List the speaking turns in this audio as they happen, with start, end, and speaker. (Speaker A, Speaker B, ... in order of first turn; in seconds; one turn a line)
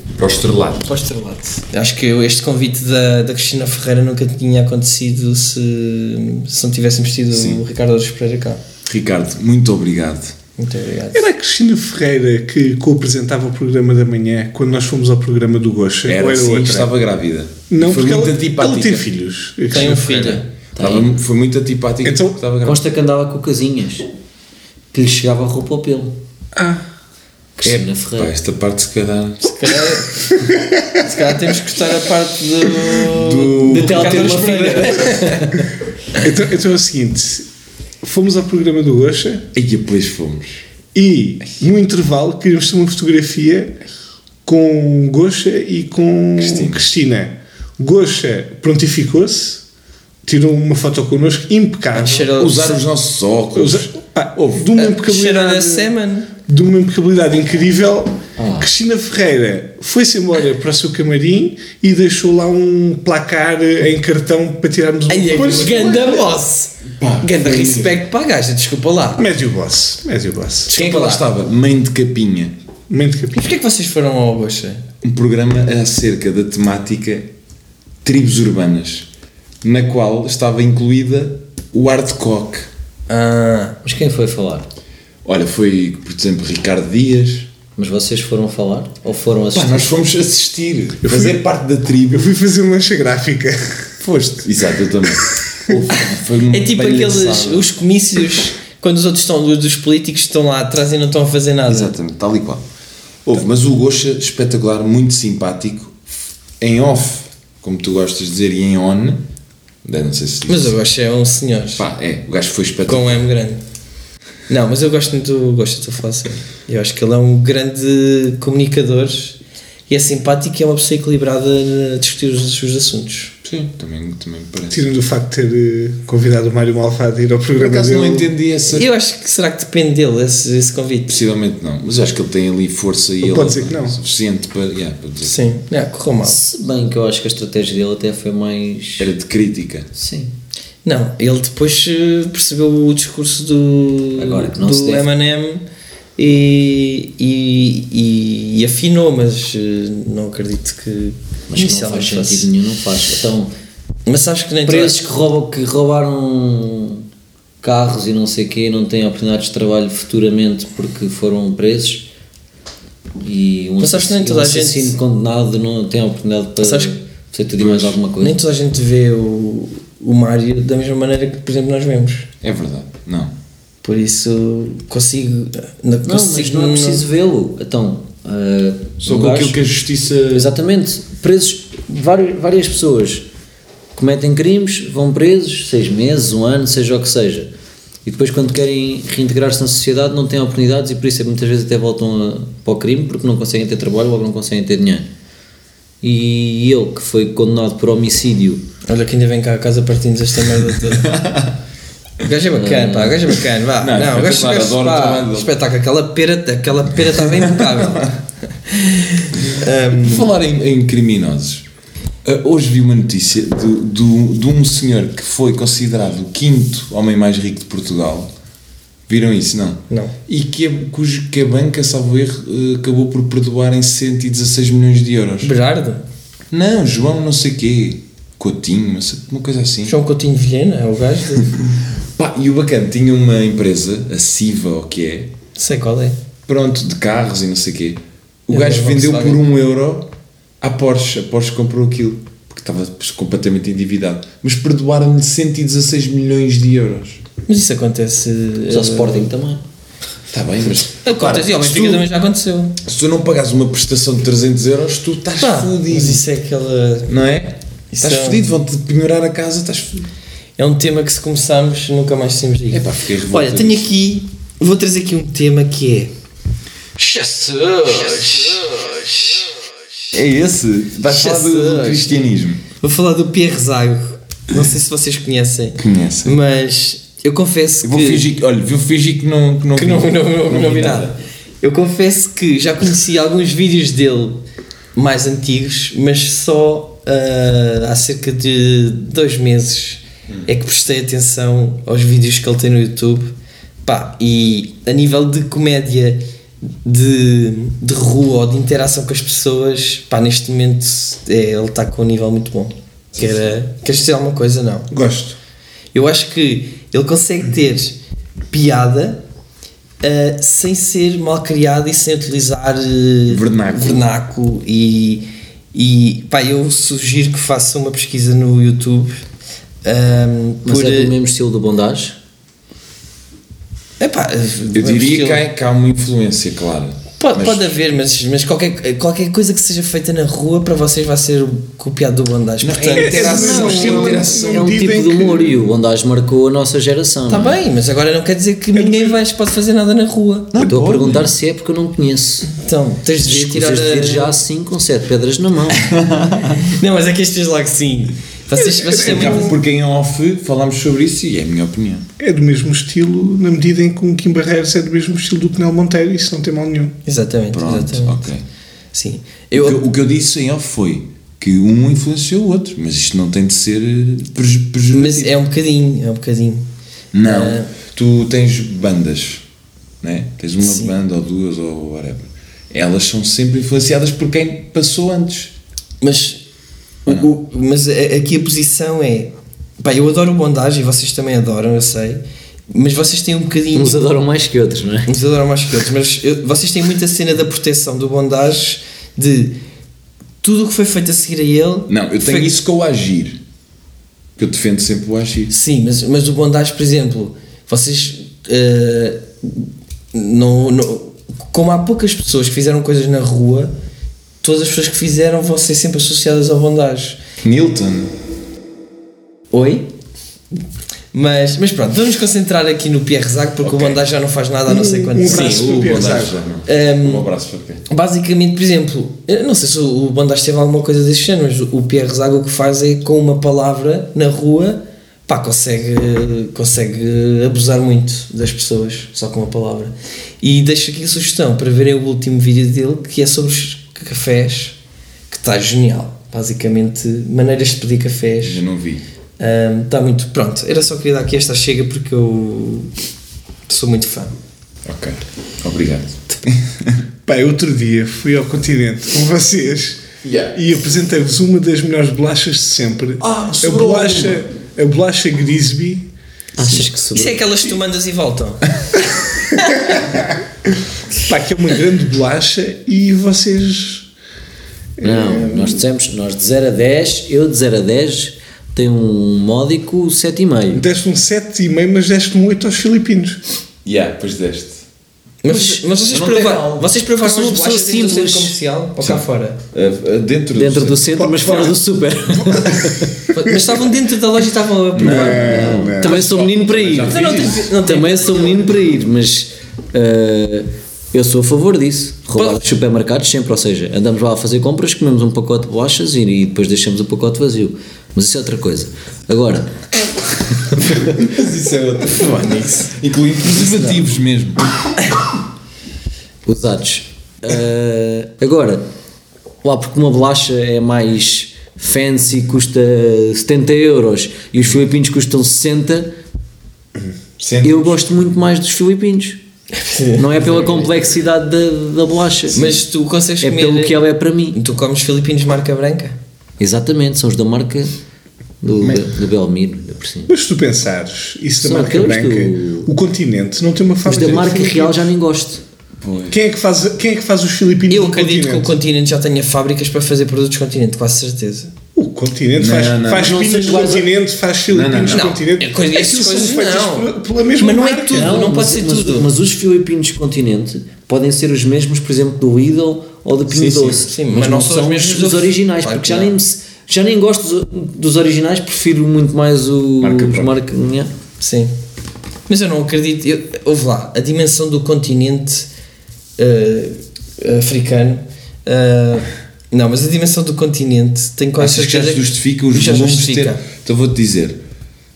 Speaker A: 0.2-1.0
Speaker B: 0.9-8.6
Speaker A: 7.3-7.6
Speaker A: 8.9-10.3
Speaker B: 10.6-11.3
Speaker C: 11.1-16.9
Speaker A: 16.1-19.0
Speaker C: 17.7-20.4
Speaker B: 19.7-20.5
Speaker D: 20.8-21.2
Speaker A: 20.8-22.8
Speaker C: 22.0-22.4
Speaker D: 22.6-24.1
Speaker D: 24.9-26.2
Speaker C: 26.6-26.8
Speaker D: 27.6-28.3
Speaker A: 27.6-29.9
Speaker B: 29.4-35.4
Speaker A: 33.0-35.0
Speaker D: 33.7-35.7
Speaker C: 36.2-37.5
Speaker C: 38.0-39.5
Speaker A: 39.5-40.6
Speaker C: 40.9-43.8
Speaker C: 44.5-49.6
Speaker A: 46.4-46.9
Speaker C: 50.2-52.3
Speaker B: 51.9-52.8
Speaker A: 52.2-54.6
Speaker C: 53.5-55.9
Speaker B: 54.8-56.3
Speaker C: 56.5-66.3
Speaker D: 58.4-58.7
Speaker B: 65.1-69.2
Speaker A: 66.9-68.0
Speaker C: 69.2-70.7
Speaker B: 70.7-71.2
Speaker A: 70.7-72.5
Speaker C: 72.9-73.6
Speaker B: 73.3-74.8
Speaker A: 75.0-77.3
Speaker A: 78.0-79.1
Speaker A: 79.6-82.7
Speaker B: 83.1-83.8
Speaker D: 83.8-84.7
Speaker A: 85.2-87.5
Speaker D: 87.8-89.9
Speaker A: 89.5-92.3
Speaker C: 91.0-91.4
Speaker C: 92.1-94.0
Speaker A: 94.0-97.7
Speaker C: 95.3-95.7
Speaker B: 95.9-102.0
Speaker A: 101.7-102.6
Speaker A: 103.2-109.2
Speaker A: 109.8-110.8
Speaker B: 110.5-111.8
Speaker A: 111.8-113.2
Speaker B: 112.9-113.6
Speaker B: 114.5-123.3
Speaker A: 123.4-124.8
Speaker C: 124.7-128.3
Speaker A: 127.6-128.9
Speaker B: 128.7-131.2
Speaker A: 131.1-135.5
Speaker C: 133.2-134.0
Speaker B: 135.2-136.4
Speaker D: 136.2-139.1
Speaker A: 139.0-139.9
Speaker D: 139.9-140.3
Speaker B: 140.8-145.7
Speaker D: 144.2-145.1
Speaker B: 146.2-152.5
Speaker D: 151.5-153.5
Speaker B: 154.1-155.1
Speaker D: 154.7-157.1
Speaker D: 157.6-162.1
Speaker D: 163.2-168.4
Speaker B: 163.8-164.9
Speaker B: 166.6-167.0
Speaker A: 167.6-168.0
Speaker B: 168.2-172.3
Speaker A: 172.4-173.3
Speaker B: 173.8-177.1
Speaker D: 176.1-179.7
Speaker A: 179.0-180.5
Speaker D: 180.3-183.3
Speaker D: 183.9-187.5
Speaker D: 188.1-195.1
Speaker D: 196.0-198.6
Speaker B: 198.9-201.1
Speaker A: 200.9-201.6
Speaker B: 202.2-210.3
Speaker D: 202.5-203.2
Speaker A: 203.8-205.5
Speaker A: 207.5-208.1
Speaker A: 210.0-211.7
Speaker A: 212.2-218.3
Speaker A: 219.1-225.5
Speaker B: 219.9-220.2
Speaker B: 225.4-226.0
Speaker A: 226.5-230.0
Speaker B: 229.9-231.5
Speaker A: 232.2-235.3
Speaker B: 235.6-236.2
Speaker A: 236.5-240.1
Speaker B: 238.5-239.4
Speaker A: 240.6-247.2
Speaker B: 247.5-249.3
Speaker D: 248.7-249.7
Speaker A: 250.3-252.1
Speaker B: 251.0-252.8
Speaker A: 252.8-256.2
Speaker B: 255.4-257.1
Speaker A: 257.1-260.1
Speaker B: 257.9-258.5
Speaker B: 260.6-266.1
Speaker A: 262.7-263.9
Speaker B: 267.0-269.6
Speaker A: 267.9-268.3
Speaker A: 270.1-272.6
Speaker B: 271.1-272.2
Speaker B: 272.8-278.2
Speaker A: 275.8-276.4
Speaker A: 277.8-281.2
Speaker B: 279.8-284.4
Speaker B: 284.9-293.3
Speaker B: 293.9-296.2
Speaker B: 296.8-304.9
Speaker A: 303.2-303.5
Speaker C: 304.9-305.4
Speaker B: 305.9-308.0
Speaker B: 308.5-309.2
Speaker B: 310.0-319.2
Speaker A: 313.3-314.1
Speaker B: 319.8-321.1
Speaker D: 320.6-322.2
Speaker B: 324.0-325.4
Speaker A: 324.7-327.7
Speaker B: 327.2-333.7
Speaker A: 332.6-334.6
Speaker C: 333.0-335.6
Speaker D: 333.2-337.6
Speaker B: 337.3-340.6
Speaker C: 338.7-339.2
Speaker A: 340.5-341.3
Speaker D: 340.6-342.5
Speaker B: 342.6-344.4
Speaker D: 343.2-345.9
Speaker A: 345.8-346.6
Speaker B: 346.6-349.6
Speaker C: 348.6-349.6
Speaker A: 349.0-352.1
Speaker C: 352.2-357.0
Speaker B: 357.1-358.3
Speaker A: 357.5-358.4
Speaker B: 358.9-359.8
Speaker A: 359.5-365.3
Speaker B: 364.9-366.7
Speaker A: 367.1-369.4
Speaker B: 367.2-367.7
Speaker A: 370.0-375.5
Speaker B: 370.6-370.9
Speaker B: 376.0-376.4
Speaker B: 377.1-384.1
Speaker D: 383.8-385.1
Speaker B: 385.1-389.6
Speaker B: 390.4-392.5
Speaker A: 391.9-393.4
Speaker A: 394.4-395.5
Speaker B: 395.5-403.7
Speaker B: 404.4-407.2
Speaker A: 407.4-408.1
Speaker B: 409.5-409.9
Speaker B: 411.1-415.8
Speaker A: 413.6-414.0
Speaker C: 414.7-416.4
Speaker A: 415.2-417.8
Speaker B: 416.7-417.3
Speaker B: 417.9-434.8
Speaker B: 435.3-438.6
Speaker A: 438.4-439.0
Speaker B: 439.4-442.9
Speaker B: 443.7-444.3
Speaker A: 444.9-447.0
Speaker C: 447.3-456.1
Speaker A: 450.2-450.6
Speaker A: 453.2-454.4
Speaker D: 456.6-457.4
Speaker B: 457.1-458.7
Speaker B: 459.4-459.9
Speaker C: 461.2-464.1
Speaker C: 465.0-465.8
Speaker D: 465.0-470.8
Speaker C: 470.7-473.4
Speaker A: 473.9-474.8
Speaker B: 475.4-479.6
Speaker D: 475.5-475.8
Speaker A: 476.1-476.9
Speaker D: 477.2-478.6
Speaker A: 479.0-481.3
Speaker D: 480.5-483.1
Speaker C: 481.2-481.7
Speaker C: 482.4-482.9
Speaker B: 483.3-485.7
Speaker A: 484.9-487.7
Speaker C: 485.0-486.2
Speaker D: 485.3-499.8
Speaker B: 487.1-488.7
Speaker B: 492.4-492.6
Speaker A: 500.8-504.6
Speaker B: 502.1-502.9
Speaker D: 506.5-508.9
Speaker D: 509.6-516.1
Speaker A: 517.4-518.0
Speaker D: 517.6-519.4
Speaker B: 519.8-520.9
Speaker D: 520.2-522.8
Speaker B: 522.5-524.0
Speaker D: 523.4-524.6
Speaker B: 524.5-526.2
Speaker D: 526.6-528.0
Speaker D: 528.6-530.3
Speaker A: 528.8-529.1
Speaker C: 530.3-535.1
Speaker D: 531.6-532.9
Speaker D: 534.0-535.6
Speaker A: 536.0-536.4
Speaker C: 536.3-538.8
Speaker B: 537.9-541.7
Speaker C: 542.0-548.4
Speaker A: 542.6-543.4
Speaker D: 543.2-544.1
Speaker A: 544.7-545.4
Speaker B: 545.1-549.3
Speaker D: 548.1-561.1
Speaker A: 553.5-554.1
Speaker B: 554.1-556.4
Speaker A: 560.0-560.5
Speaker B: 561.4-561.7
Speaker B: 562.5-565.7
Speaker B: 566.4-573.6
Speaker A: 571.6-574.6